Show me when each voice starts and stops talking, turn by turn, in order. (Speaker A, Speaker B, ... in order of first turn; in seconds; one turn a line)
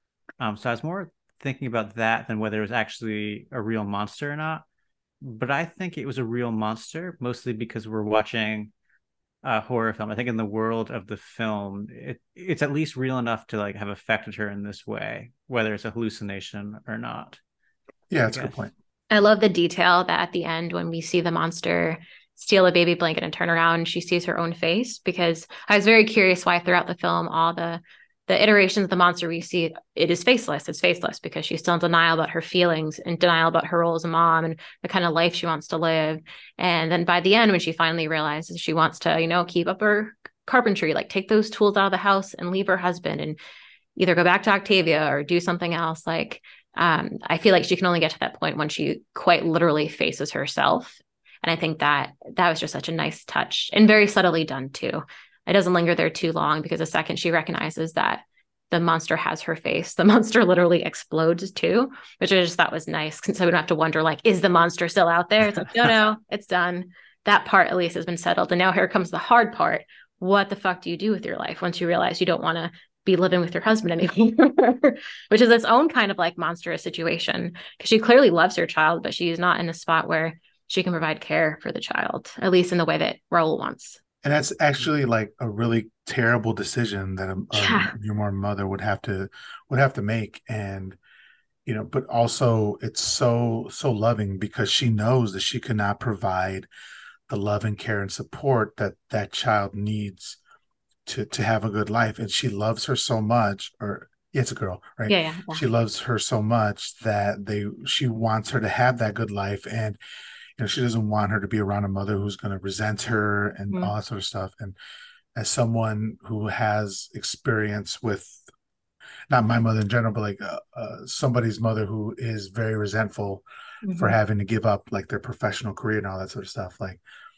Speaker A: 0.4-4.6
Speaker A: 5.2-8.7
Speaker A: 9.4-17.4
Speaker B: 18.1-18.7
Speaker A: 18.3-18.6
Speaker C: 19.1-43.4
Speaker C: 44.0-84.0
Speaker B: 84.2-91.0
Speaker C: 87.5-87.9
Speaker B: 91.7-96.7
Speaker B: 97.3-100.4
Speaker B: 101.0-110.0
Speaker C: 105.1-105.6
Speaker B: 110.6-114.8
Speaker B: 115.3-118.5
Speaker B: 119.3-127.0
Speaker C: 123.8-124.2